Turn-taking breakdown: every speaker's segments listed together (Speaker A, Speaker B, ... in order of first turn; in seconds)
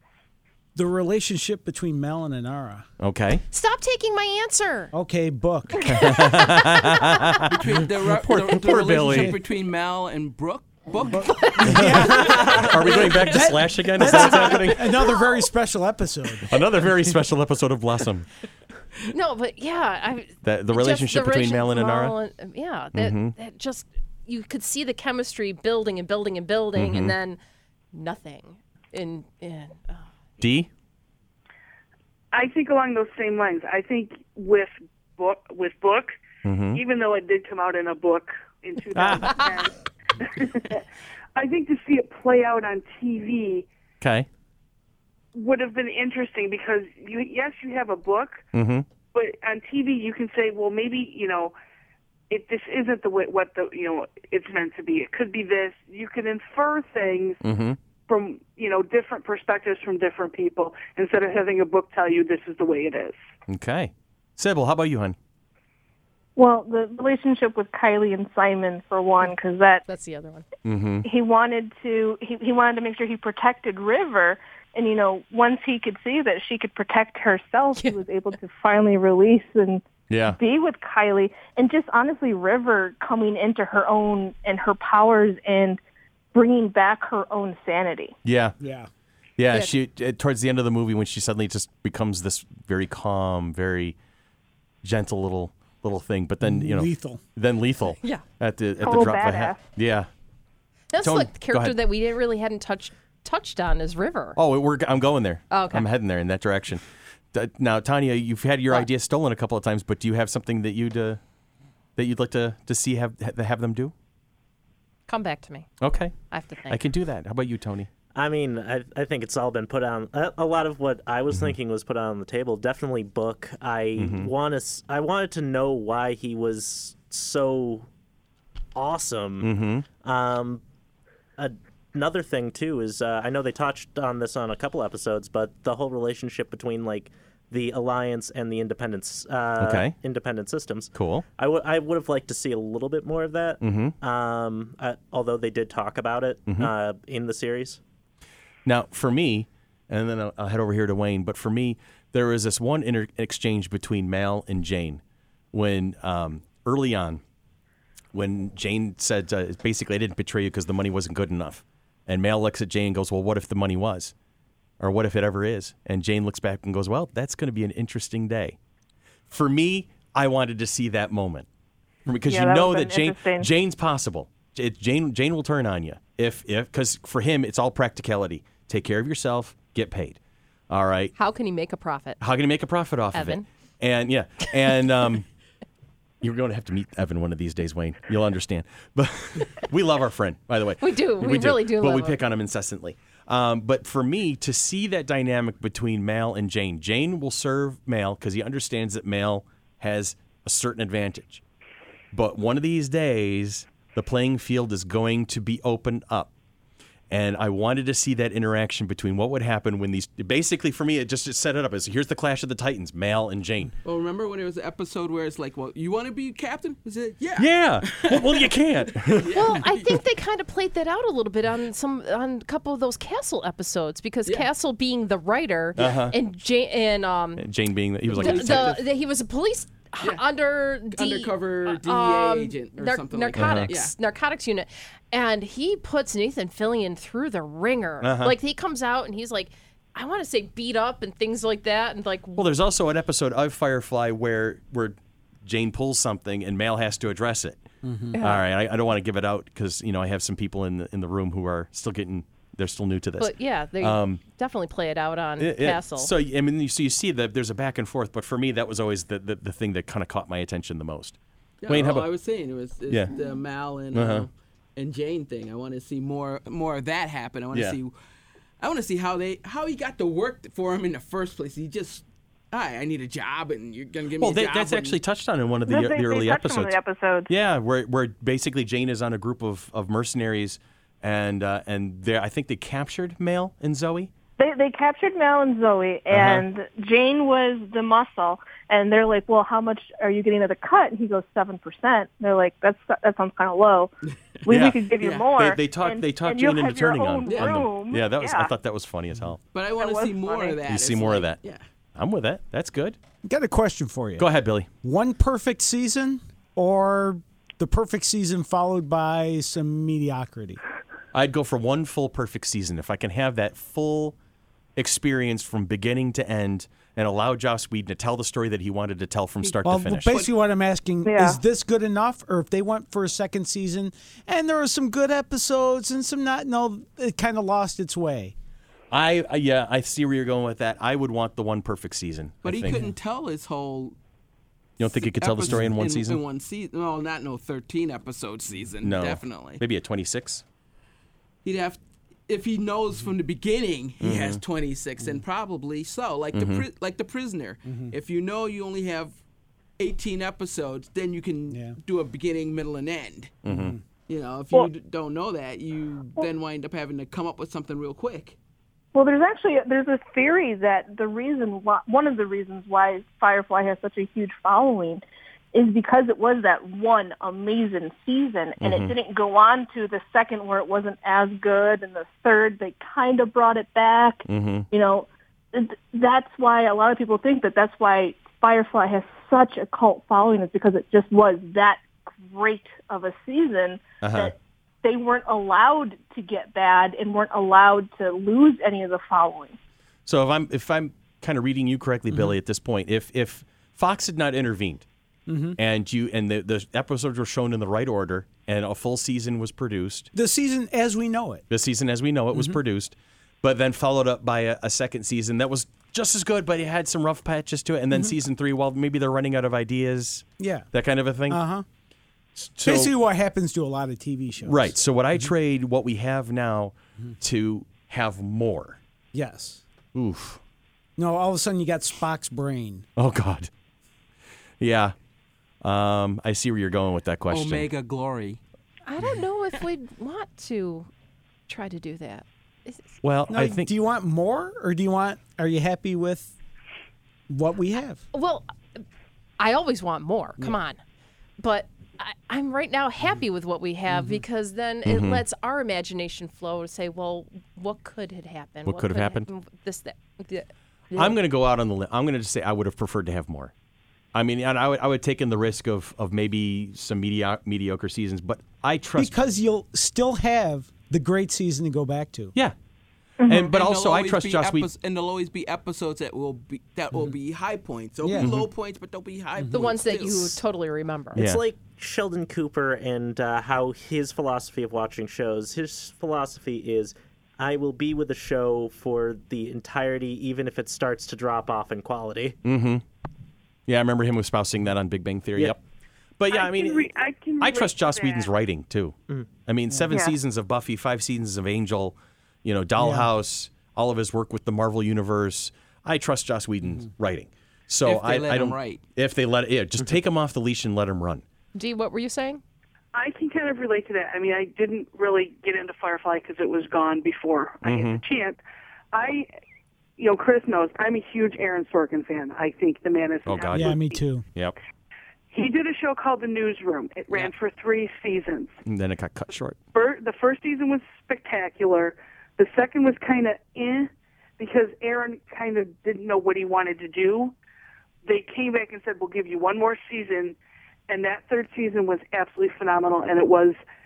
Speaker A: 0.7-2.9, 4.9-6.2, 9.1-9.3, 11.0-16.7, 88.6-88.9, 96.4-97.2, 247.8-248.2, 303.2-304.3, 304.8-310.6, 319.6-328.3, 347.6-347.9, 351.5-351.8, 353.5-353.8, 395.3-395.6, 400.1-401.4, 410.4-410.7, 411.3-411.6, 412.6-414.7, 419.1-419.6, 421.0-422.9, 433.3-436.3, 437.3-438.0, 458.9-462.3, 468.0-468.4, 469.4-469.6, 492.8-493.1, 513.5-514.2
Speaker B: 3.0-3.4, 5.8-9.3, 11.6-15.2, 16.4-18.2, 20.4-22.1, 22.9-23.4, 26.7-27.1, 30.4-30.7, 36.4-36.8, 38.9-39.4, 44.0-44.3, 48.5-48.9, 57.4-57.8, 63.5-65.1, 70.6-71.1, 80.1-80.4, 88.2-88.6, 89.4-94.0, 94.8-100.1, 101.0-101.7, 104.3-111.2, 112.0-113.9, 115.8-116.1, 116.7-117.9, 124.0-124.3, 129.4-129.8, 139.6-139.9, 140.9-141.2, 143.6-143.9, 148.7-155.0, 155.5-157.2, 158.1-164.1, 164.8-168.6, 169.3-171.5, 172.1-180.2, 180.7-181.1, 182.2-185.2, 186.2-201.4, 202.1-206.3, 207.1-213.7, 217.3-219.3, 225.8-226.2, 227.4-228.7, 233.3-233.7, 238.0-238.3, 242.3-247.6, 248.2-254.2, 255.4-262.1, 263.9-264.3, 267.5-267.8, 274.2-276.8, 277.3-284.1, 286.1-286.4, 294.5-299.4, 300.6-301.4, 301.9-303.0, 304.2-304.7, 311.1-314.1, 314.8-320.2, 328.9-332.8, 334.8-336.2, 338.8-340.4, 344.0-344.4, 346.3-346.6, 353.4-353.8, 368.6-368.9, 374.3-374.7, 384.0-384.3, 390.1-394.8, 395.6-400.1, 401.5-411.4, 412.4-412.9, 414.4-418.8, 419.9-420.4, 422.9-423.5, 424.6-424.9, 425.6-427.7, 433.0-433.7, 444.8-445.2, 448.6-449.3, 450.9-453.5, 454.1-459.1, 463.2-464.7, 471.1-471.4, 482.4-482.8, 483.7-485.6, 486.2-486.9, 487.4-501.2, 507.6-508.0, 513.2-514.5, 518.6-519.6
Speaker C: 3.5-4.9, 5.8-7.2, 19.1-27.4, 27.9-30.1, 69.8-70.4, 100.9-104.4, 105.5-105.9, 115.1-115.7, 116.3-116.8, 181.2-182.2, 183.1-183.4, 190.8-192.2, 219.3-227.5, 228.1-242.5, 248.1-248.4, 253.2-256.1, 428.9-430.9, 431.5-432.8, 438.1-438.8, 439.4-440.8, 441.4-451.1, 469.5-471.2, 501.5-502.4
Speaker D: 7.5-13.2, 213.8-220.0, 228.1-228.8, 230.9-233.9, 261.6-267.9, 268.6-275.0, 297.2-297.6, 299.5-301.6, 319.4-320.3, 332.4-333.9, 334.8-339.6, 341.4-349.1, 349.8-353.4, 354.1-358.4, 427.3-428.4, 463.5-470.4, 497.8-498.8
Speaker E: 32.3-36.2, 36.7-40.8, 41.4-43.7, 45.3-48.4, 49.1-51.5, 52.3-57.4, 58.1-63.2, 486.3-488.4, 502.9-508.4, 508.9-509.3, 510.0-514.0, 515.3-518.6, 519.7-527.3, 528.0-530.4, 530.9-533.6
Speaker F: 66.3-69.8, 71.0-85.8, 86.3-88.1, 98.8-99.6, 172.2-173.5, 275.6-277.3, 284.4-293.9, 294.4-298.5, 299.8-300.6, 321.0-321.4, 358.9-365.0, 365.5-389.6, 463.2-463.5
Speaker G: 118.1-127.9, 128.7-129.5, 130.0-130.6, 131.4-147.8, 471.1-482.4